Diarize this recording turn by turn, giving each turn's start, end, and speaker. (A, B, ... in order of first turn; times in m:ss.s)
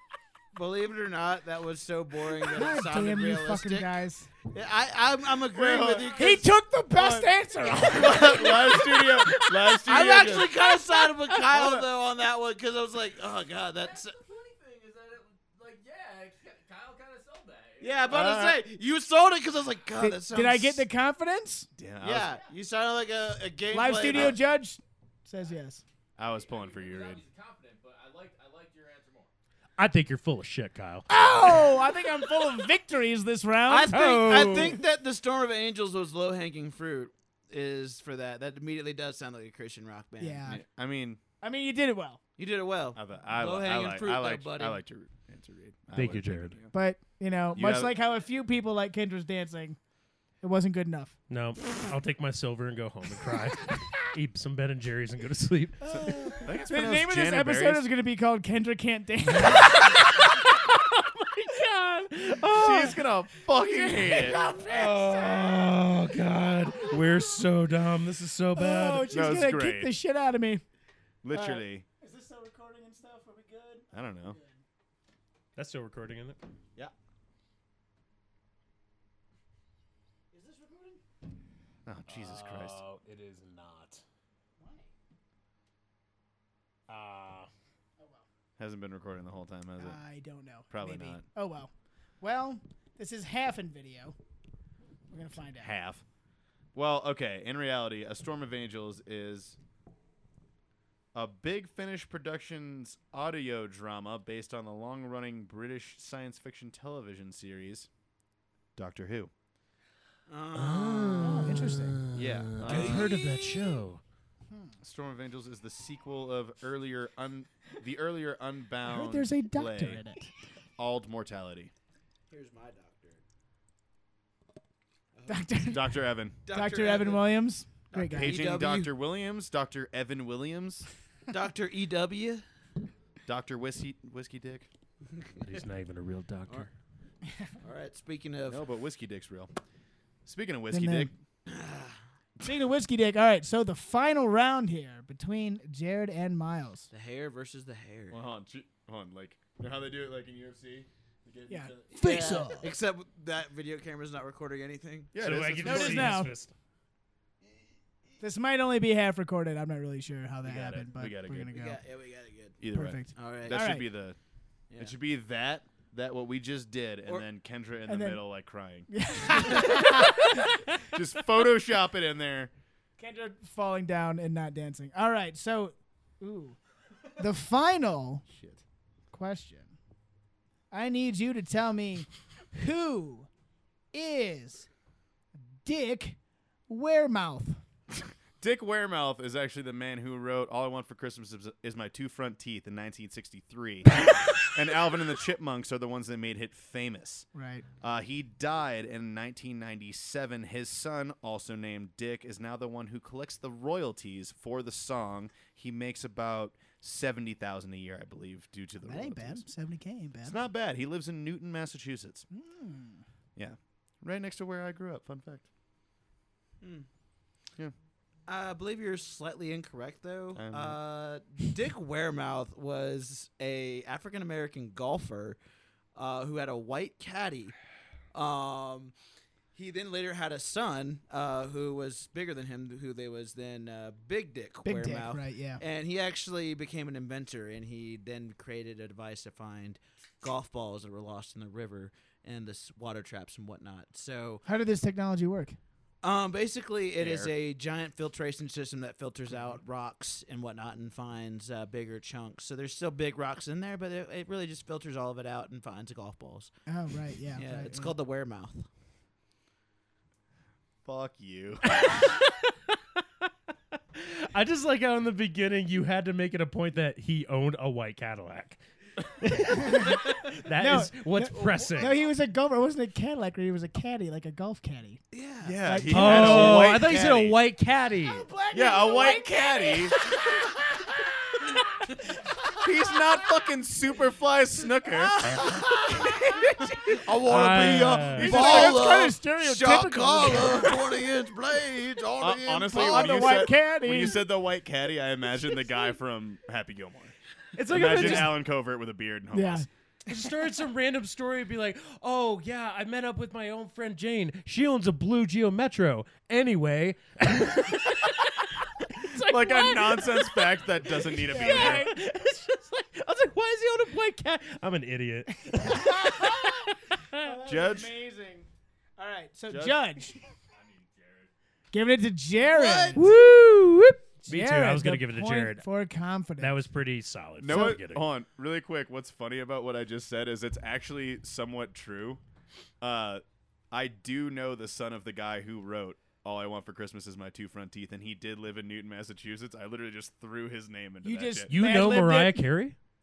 0:00.5-0:03.9 A
0:02.5-0:04.3 B
0:04.5-0:06.5 A
0:05.5-0:06.2 C
0:06.1-0:09.8 B
0:06.9-0:10.5 C
0:09.8-0:14.2 A
0:10.7-0:11.8 B
0:13.8-0:18.3 D
0:17.8-0:20.8 A
0:18.1-0:18.6 C
0:20.0-0:21.7 B
0:21.8-0:22.4 C
0:22.0-0:24.4 A
0:23.7-0:25.8 B
0:24.1-0:24.4 C
0:26.2-0:27.2 C
0:26.2-0:29.3 D
0:29.8-0:31.7 E
0:31.1-0:34.4 B
0:33.7-0:40.5 A
0:33.9-0:34.8 E
0:40.2-0:40.6 B
0:40.5-0:41.2 C
0:41.4-0:42.2 B
0:42.4-0:44.8 A
0:42.9-0:46.7 C
0:45.9-0:46.6 E
0:46.7-0:49.8 B
0:47.5-0:47.9 C
0:50.4-0:51.2 B
0:51.3-0:56.4 E
0:55.8-1:00.0 B
0:55.9-0:57.8 C
0:59.4-1:03.0 E
1:02.5-1:04.4 C
1:03.5-1:05.6 B
1:04.6-1:09.1 E
1:06.8-1:07.1 B
1:08.5-1:10.6 B
1:09.1-1:09.9 C
1:11.2-1:11.8 C
1:11.3-1:14.6 B
1:13.9-1:14.4 C
1:15.6-1:16.4 E
1:20.3-1:21.0 B
1:21.8-1:22.8 C
1:22.0-1:24.0 E
1:24.6-1:24.8 B
1:26.9-1:27.5 E
1:28.0-1:28.2 B
1:28.6-1:30.0 C
1:29.8-1:34.2 B
1:30.7-1:31.2 C
1:35.1-1:35.7 B
1:35.6-1:36.0 C
1:36.7-1:39.6 C
1:41.1-1:47.9 C
1:48.8-1:49.3 C
1:50.3-1:51.7 A
1:50.5-1:54.0 E
1:51.2-1:52.0 B
1:52.1-1:53.1 C
1:52.6-1:53.0 A
1:54.5-1:54.8 B
1:54.8-2:00.0 C
1:58.8-2:00.3 B
2:00.8-2:01.7 C
2:02.3-2:03.2 A
2:05.1-2:05.5 A
2:05.3-2:08.4 B
2:05.7-2:06.4 C
2:06.4-2:07.4 A
2:07.9-2:08.9 A
2:08.1-2:10.9 C
2:11.3-2:12.4 A
2:13.2-2:14.7 C
2:15.1-2:15.5 A
2:15.4-2:16.7 E
2:17.6-2:18.6 A
2:18.4-2:19.5 C
2:20.2-2:21.1 C
2:20.7-2:21.1 B
2:21.5-2:22.0 A
2:22.4-2:26.9 B
2:26.9-2:28.2 A
2:28.1-2:32.5 C
2:31.5-2:32.7 B
2:32.0-2:35.2 A
2:35.1-2:36.2 C
2:35.2-2:36.5 E
2:35.6-2:36.3 B
2:38.2-2:41.8 B
2:40.4-2:41.5 C
2:41.5-2:42.6 A
2:42.6-2:44.2 C
2:42.7-2:43.9 B
2:43.1-2:43.6 A
2:44.8-2:52.5 C
2:47.9-2:48.2 B
2:48.9-2:50.5 B
2:53.0-2:56.6 B
2:57.2-2:58.2 B
2:58.3-2:58.6 C
2:59.1-2:59.7 B
3:00.7-3:03.3 B
3:03.9-3:04.7 B
3:05.6-3:07.6 B
3:07.9-3:17.3 C
3:17.3-3:17.6 B
3:17.8-3:29.4 C
3:28.8-3:30.4 B
3:30.2-3:32.3 C
3:32.3-3:33.0 B
3:33.4-3:35.4 C
3:36.6-3:36.9 A
3:38.3-3:45.4 A
3:40.3-3:40.8 C
3:45.9-3:47.5 A
3:48.1-3:48.9 A
3:49.5-4:04.4 A
3:54.6-3:55.6 B
4:04.4-4:05.6 B
4:06.0-4:16.5 A
4:07.0-4:07.3 C
4:16.7-4:17.9 B
4:17.3-4:18.7 A
4:20.8-4:21.9 C
4:21.6-4:22.7 E
4:24.0-4:32.0 E
4:29.5-4:35.0 B
4:35.1-4:35.6 A
4:35.4-4:37.4 C
4:35.6-4:36.9 B
4:35.9-4:38.2 E
4:38.0-4:43.2 B
4:38.5-4:40.1 C
4:42.6-4:45.3 C
4:45.2-4:46.5 B
4:46.7-4:53.5 A
4:47.1-4:48.6 E
4:48.0-4:48.9 C
4:48.2-4:50.8 B
4:52.2-4:57.1 C
4:52.7-4:54.2 B
4:57.6-4:58.4 E
4:57.7-4:59.7 C
4:57.8-4:58.3 B
4:59.3-4:59.7 B
5:00.0-5:17.2 E
5:09.2-5:11.9 C
5:11.3-5:12.0 B
5:15.5-5:20.2 B
5:17.4-5:17.9 C
5:19.5-5:19.8 C
5:20.5-5:21.3 D
5:21.7-5:23.1 B
5:22.4-5:23.1 A
5:22.9-5:25.6 E
5:24.2-5:26.6 B
5:26.4-5:28.0 E
5:27.4-5:32.2 C
5:32.8-5:41.5 C
5:41.0-5:42.4 B
5:41.5-5:42.8 E